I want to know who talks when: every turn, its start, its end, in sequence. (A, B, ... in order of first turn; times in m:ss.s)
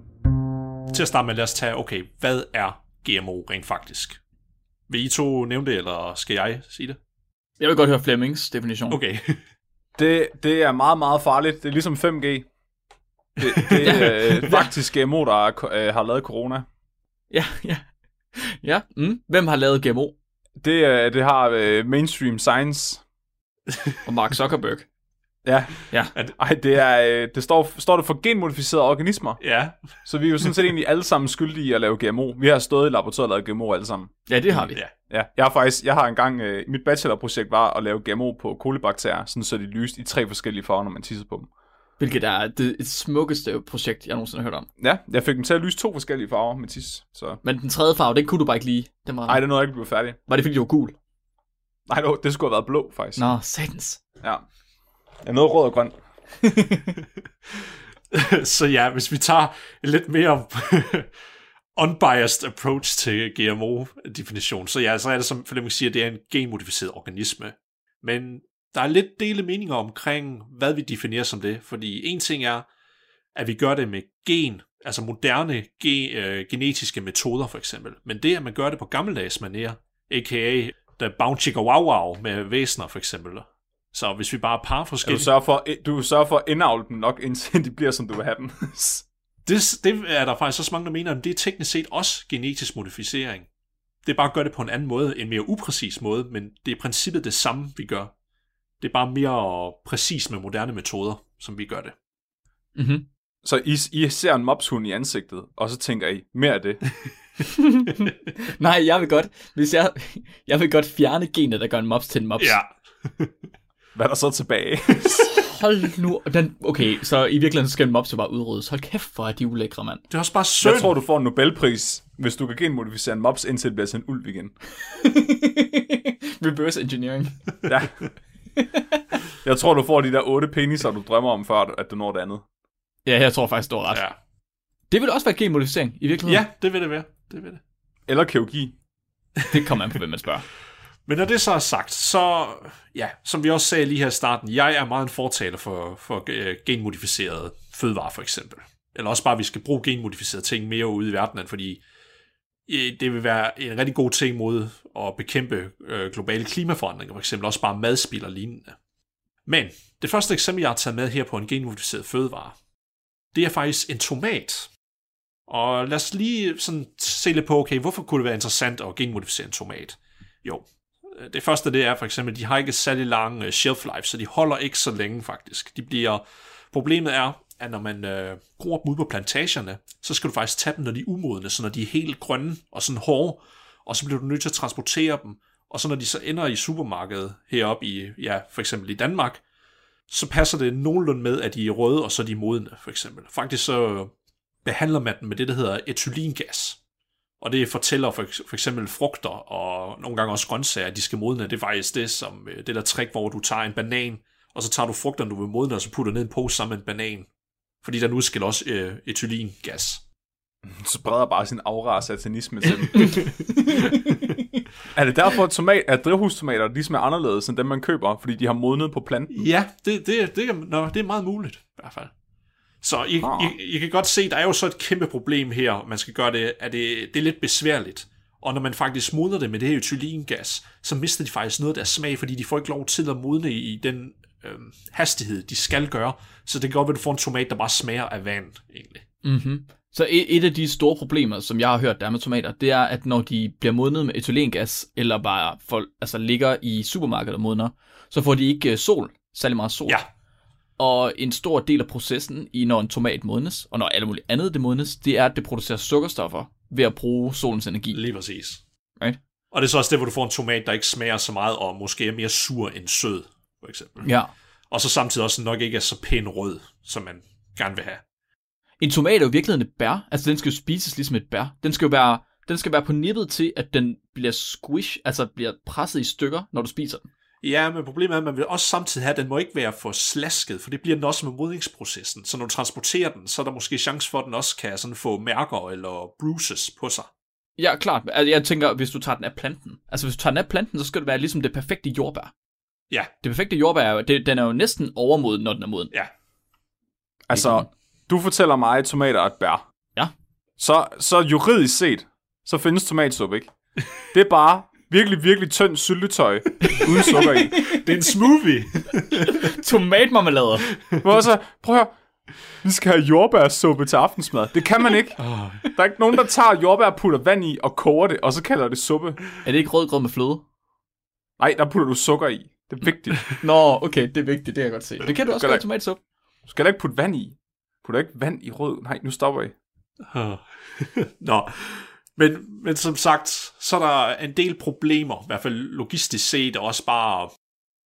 0:00.9-0:04.2 A
0:04.9-0:07.0 A
0:07.6-0:09.0 B
0:08.9-0:09.4 A
0:10.0-0:12.5 C
0:13.4-0:14.7 A
0:13.4-0:16.7 C
0:13.8-0:14.7 B
0:17.3-0:20.2 B
0:20.6-0:23.0 C
0:24.1-0:24.9 B
0:25.4-0:25.7 C
0:25.9-0:26.2 B
0:26.3-0:29.4 C
0:29.4-0:30.6 A
0:30.0-0:34.1 C
0:34.3-0:34.8 B
0:34.5-0:34.9 A
0:35.1-0:41.5 C
0:42.0-0:44.7 B
0:44.8-0:47.4 C
0:47.4-0:51.0 B
0:49.3-0:50.2 C
0:51.9-0:53.2 C
0:53.2-0:54.0 B
0:54.2-0:54.5 C
0:55.2-0:56.0 C
0:56.6-0:56.8 B
0:58.1-1:01.1 A
1:01.8-1:12.7 A
1:13.3-1:25.3 A
1:25.0-1:29.0 C
1:29.4-1:33.5 A
1:34.0-1:38.1 A
1:38.8-1:42.0 A
1:42.8-1:43.1 B
1:43.4-1:46.8 C
1:48.5-1:52.6 B
1:52.4-1:53.3 A
1:54.0-1:55.0 C
1:55.3-2:00.0 B
2:00.1-2:00.9 A
2:00.6-2:04.5 C
2:05.0-2:07.4 B
2:09.4-2:12.4 C
2:13.1-2:14.1 B
2:13.9-2:14.2 A
2:14.9-2:16.5 B
2:16.2-2:17.6 A
2:18.1-2:18.7 C
2:19.5-2:20.5 B
2:21.1-2:31.8 A
2:32.7-2:38.8 A
2:39.5-2:42.6 A
2:43.3-2:44.7 A
2:45.5-3:09.4 A
3:10.1-3:14.1 A
3:14.6-3:16.8 A
3:17.4-3:27.3 A
3:27.8-3:30.0 A
3:30.7-3:33.1 C
3:32.6-3:33.3 A
3:35.0-3:39.3 C
3:39.3-3:42.1 A
3:42.8-3:59.0 A
3:43.2-3:43.5 C
3:59.2-4:10.0 B
4:10.8-4:18.0 B
4:17.9-4:18.6 A
4:19.5-4:24.1 A
4:24.0-4:24.3 B
4:24.7-4:28.0 A
4:28.8-4:37.1 B
4:37.4-4:47.1 A
4:47.6-4:52.3 B
4:53.2-4:55.9 B
4:57.3-4:59.6 C
4:57.3-4:57.7 B
5:00.6-5:03.5 C
5:04.1-5:07.6 C
5:06.7-5:07.7 B
5:07.6-5:09.5 A
5:09.4-5:10.7 B
5:10.7-5:11.0 A
5:11.0-5:12.0 C
5:12.6-5:15.2 C
5:15.2-5:15.7 A
5:15.7-5:19.2 C
5:19.4-5:20.4 B
5:21.4-5:23.2 C
5:22.8-5:26.0 B
5:25.2-5:25.8 C
5:26.5-5:29.5 C
5:30.0-5:37.3 A